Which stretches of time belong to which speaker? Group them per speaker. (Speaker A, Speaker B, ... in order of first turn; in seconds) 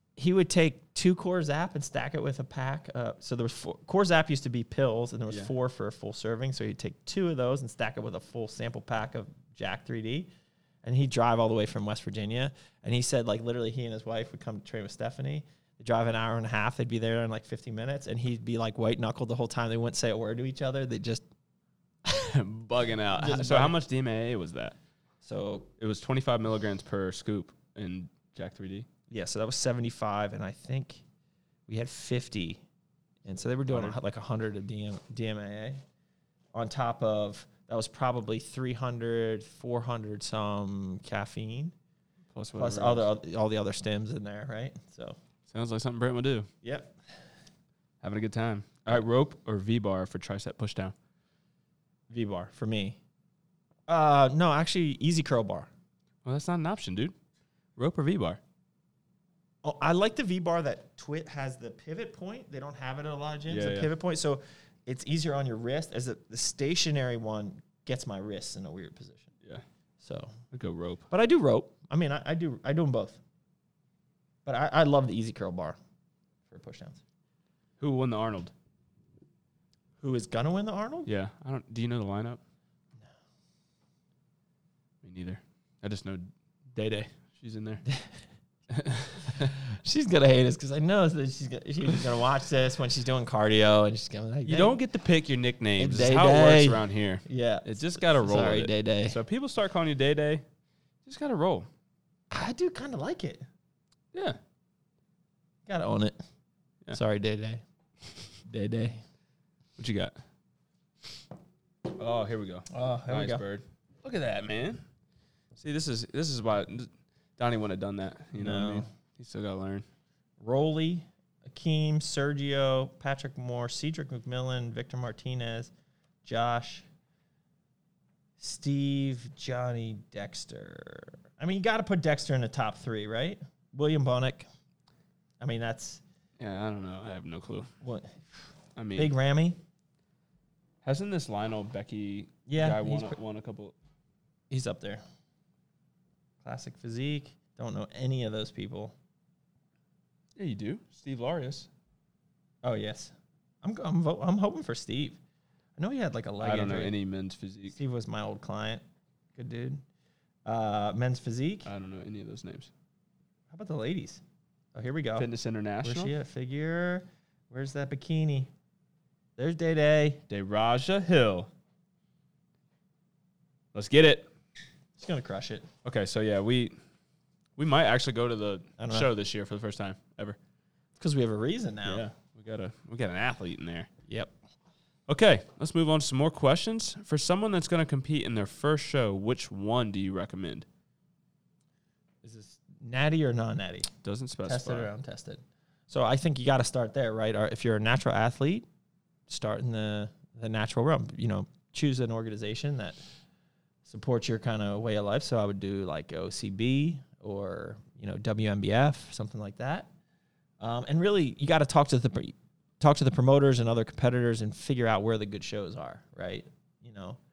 Speaker A: 0.2-10.3, 10.8-21.2, 23.2-23.8, 25.2-25.7, 29.1-31.0, 31.7-32.6, 33.2-35.8, 36.5-41.7, 42.6-45.2, 46.6-46.9, 52.1-53.0, 53.9-55.7, 59.6-69.3, 70.0-70.3, 71.1-73.2, 74.5-75.8, 76.5-77.0, 80.0-81.1, 87.8-88.1, 89.4-94.8, 95.8-99.2, 102.3-103.5, 105.7-106.2, 106.9-107.6, 108.5-109.0, 112.7-113.5, 118.4-118.9, 120.4-125.7, 126.2-126.9, 128.4-134.5, 135.4-136.0, 137.8-138.2, 138.9-139.6, 142.5-143.2, 144.5-145.0, 146.4-148.9, 152.6-155.2, 155.8-156.9, 157.7-158.8, 159.4-159.8, 160.5-161.7, 163.5-164.2, 164.7-165.3, 165.8-168.5, 169.4-170.2, 175.0-175.7, 178.8-179.1, 181.0-182.1, 192.2-193.9, 194.4-198.7, 199.3-203.0, 203.9-209.9, 210.6-217.2
Speaker B: 22.1-24.8, 25.8-28.9, 33.7-34.0, 42.3-43.1, 45.5-46.5, 48.0-51.0, 56.2-57.1, 57.8-58.4, 63.5-63.9, 70.5-71.1, 77.8-78.5, 81.1-82.4, 85.0-87.8, 88.7-89.5, 94.5-100.4, 101.0-101.7, 104.1-104.4, 109.8-110.2, 111.9-114.8, 115.6-119.8, 136.4-137.7, 138.8-139.1, 140.8-143.8, 150.3-151.7, 156.4-157.8, 161.7-162.7, 165.2-166.1, 170.3-171.5, 173.7-174.3, 175.8-176.8, 177.6-180.4, 181.8-183.9, 185.1-190.7, 194.0-194.9